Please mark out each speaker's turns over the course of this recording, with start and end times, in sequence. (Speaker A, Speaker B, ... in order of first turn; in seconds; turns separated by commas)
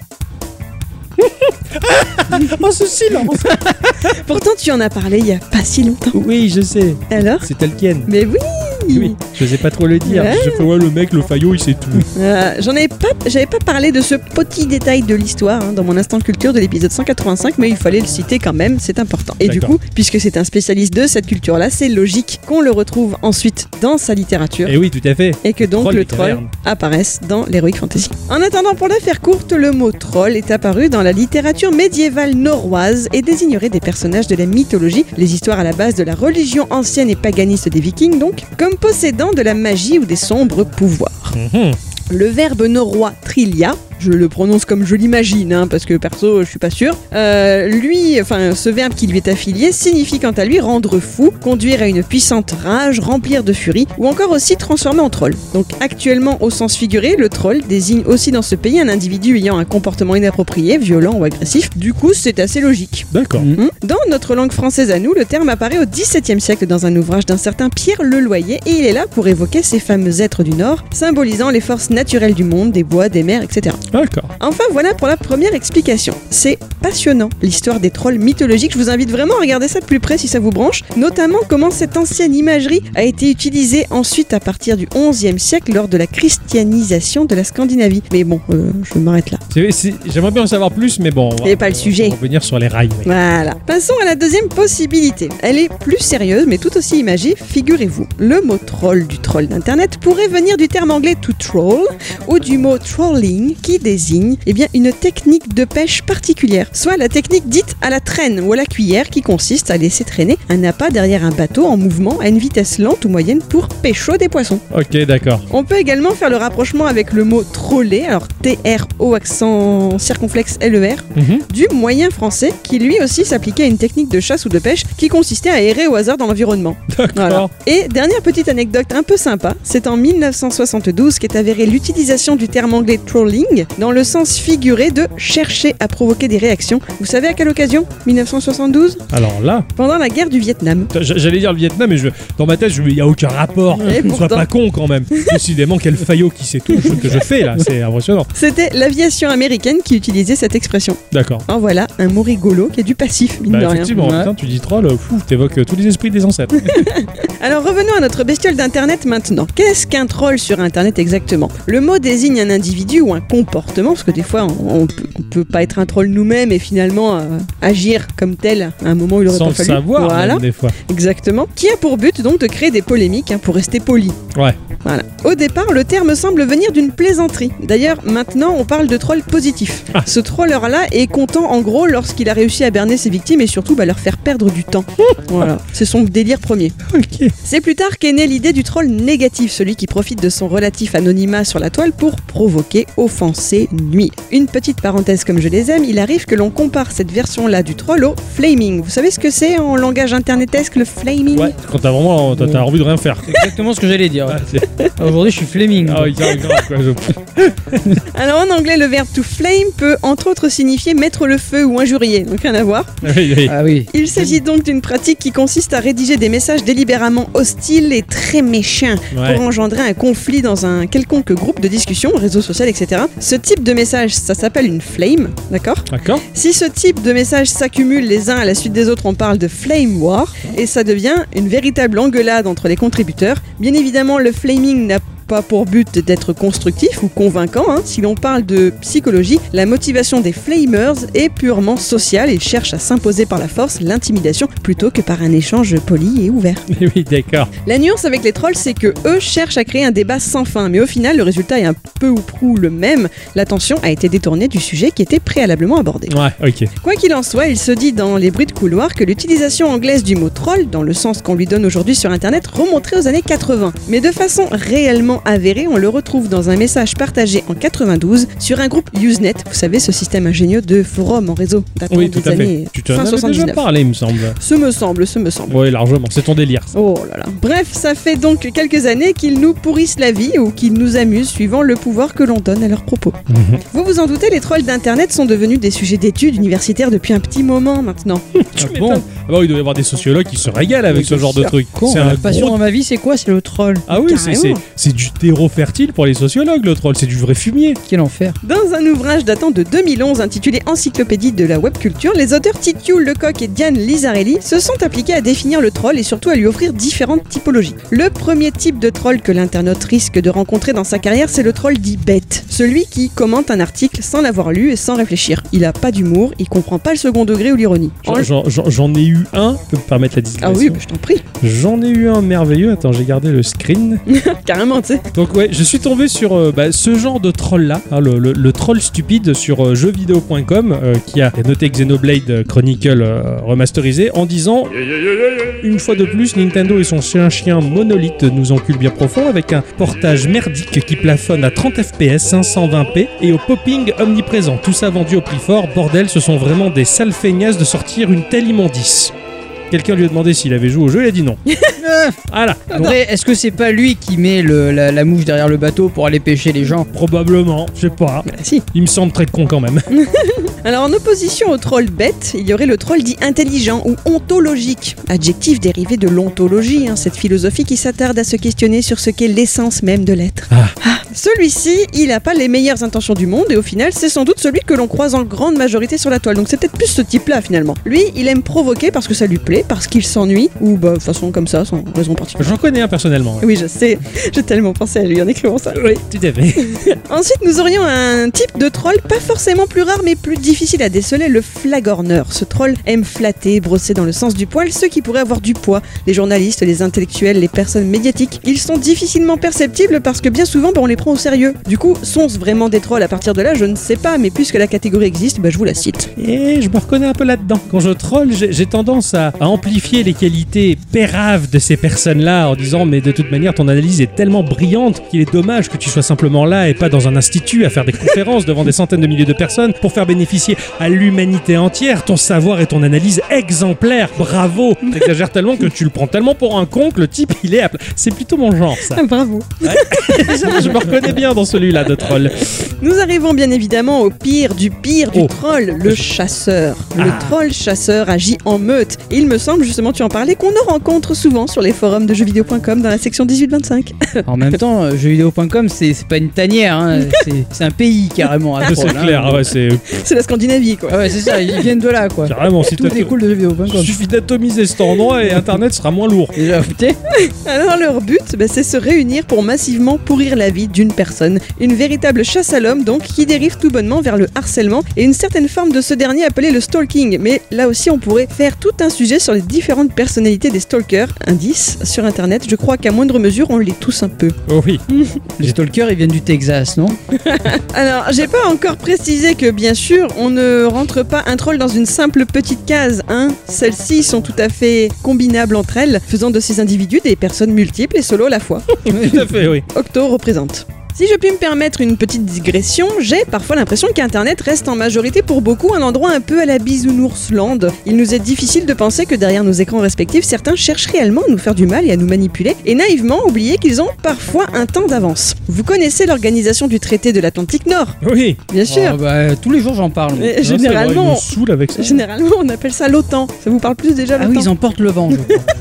Speaker A: 1.2-4.1, Speaker B: 3.3-6.2, Speaker A: 6.1-8.1, Speaker B: 7.1-7.5, Speaker B: 8.1-9.2, Speaker A: 8.9-12.1, Speaker B: 10.0-10.7, Speaker B: 12.1-24.8, Speaker A: 19.4-19.8, Speaker A: 24.6-26.5, Speaker B: 25.4-41.4, Speaker A: 41.3-41.8, Speaker B: 42.1-73.8, Speaker A: 63.1-63.5, Speaker A: 73.9-74.3, Speaker B: 74.4-89.4, Speaker A: 89.5-93.1, Speaker B: 91.4-92.2, Speaker B: 93.0-114.6, Speaker A: 114.7-115.5, Speaker B: 115.5-139.1, Speaker A: 121.1-121.5, Speaker A: 126.9-127.5, Speaker A: 139.1-139.7, Speaker B: 139.8-140.9, Speaker A: 140.9-148.3, Speaker B: 143.7-144.5, Speaker B: 145.1-145.4, Speaker B: 148.3-153.9, Speaker A: 151.1-151.4, Speaker A: 153.5-156.8, Speaker C: 153.9-154.3, Speaker B: 156.6-174.2, Speaker A: 169.3-170.8, Speaker B: 174.8-186.8, Speaker A: 185.0-185.5, Speaker A: 186.9-187.3, Speaker B: 187.4-201.6, Speaker A: 201.3-203.3, Speaker C: 202.4-202.7, Speaker C: 203.3-204.4, Speaker A: 204.3-204.7, Speaker C: 205.0-206.3, Speaker A: 205.8-208.0, Speaker B: 208.1-213.0, Speaker A: 213.0-213.6, Speaker C: 213.4-213.9, Speaker B: 213.9-246.7, Speaker A: 219.1-219.4, Speaker A: 225.9-226.2, Speaker A: 246.7-247.5, Speaker B: 247.6-256.1, Speaker A: 256.1-256.7, Speaker B: 256.8-273.7, Speaker A: 271.9-274.4, Speaker B: 274.4-275.6, Speaker A: 275.5-276.7, Speaker B: 276.7-288.3, Speaker A: 283.3-283.6, Speaker A: 288.3-292.6, Speaker C: 288.6-289.0, Speaker C: 290.9-293.9, Speaker B: 291.3-291.5, Speaker A: 293.9-297.8, Speaker B: 293.9-294.6, Speaker C: 297.9-298.4, Speaker B: 298.4-318.3, Speaker A: 318.0-320.8, Speaker B: 320.4-321.2, Speaker A: 321.4-324.0, Speaker B: 324.1-325.1, Speaker A: 325.1-334.8, Speaker A: 335.4-349.1, Speaker A: 349.7-351.4, Speaker B: 351.5-351.8, Speaker C: 351.8-352.2, Speaker A: 352.3-352.9, Speaker C: 352.7-356.9, Speaker A: 356.9-359.9, Speaker B: 358.2-358.6, Speaker B: 359.9-382.6, Speaker A: 382.4-383.4, Speaker B: 383.4-385.8, Speaker A: 385.7-386.8, Speaker B: 386.6-406.1, Speaker A: 406.2-429.0, Speaker B: 428.9-430.9, Speaker A: 429.6-432.5, Speaker B: 432.4-444.2, Speaker A: 436.9-437.4, Speaker C: 444.3-449.5, Speaker A: 448.6-450.0, Speaker B: 449.9-451.6, Speaker C: 450.9-454.0, Speaker A: 452.3-456.4, Speaker C: 456.3-457.0, Speaker B: 457.1-474.4, Speaker A: 474.5-474.8, Speaker C: 475.4-477.0, Speaker B: 477.2-489.1, Speaker A: 488.8-489.6, Speaker B: 489.7-508.0, Speaker A: 508.0-508.4, Speaker B: 508.5-509.0, Speaker C: 508.6-510.4, Speaker B: 510.1-514.5, Speaker A: 510.4-512.0, Speaker C: 514.2-515.4